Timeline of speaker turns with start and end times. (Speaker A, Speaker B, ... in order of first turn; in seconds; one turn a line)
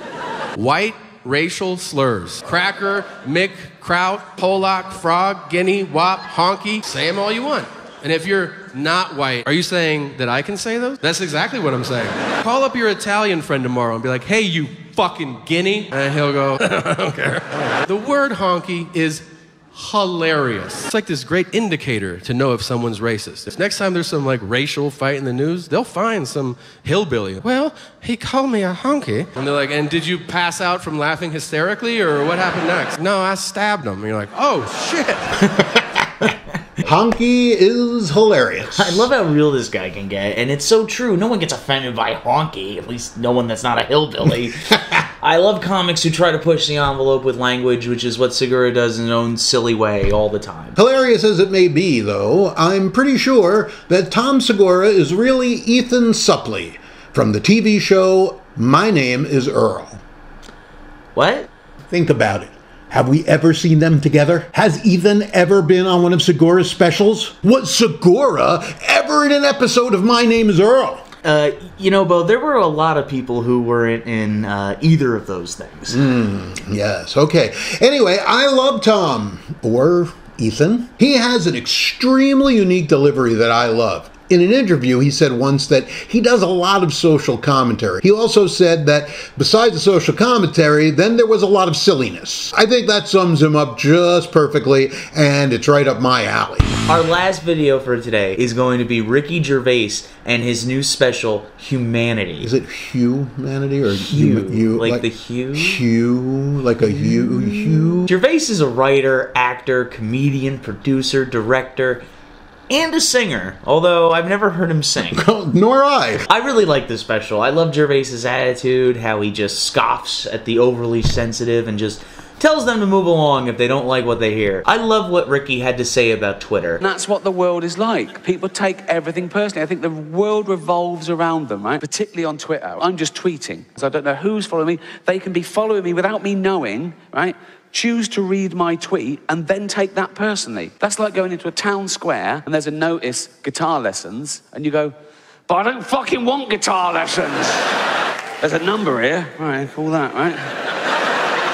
Speaker A: 0.6-35.5
Speaker B: 36.8-39.1
Speaker C: 38.7-50.8
Speaker B: 50.8-60.0
Speaker C: 61.1-61.5
Speaker B: 61.9-71.0
Speaker C: 71.2-76.1
Speaker B: 75.9-96.7
Speaker C: 96.9-102.5
Speaker B: 102.4-108.1
Speaker C: 103.9-105.8
Speaker C: 106.8-112.0
Speaker C: 112.7-115.3
Speaker B: 115.0-116.3
Speaker C: 116.3-126.8
Speaker D: 126.8-144.9
Speaker D: 145.5-147.8
Speaker D: 148.4-150.4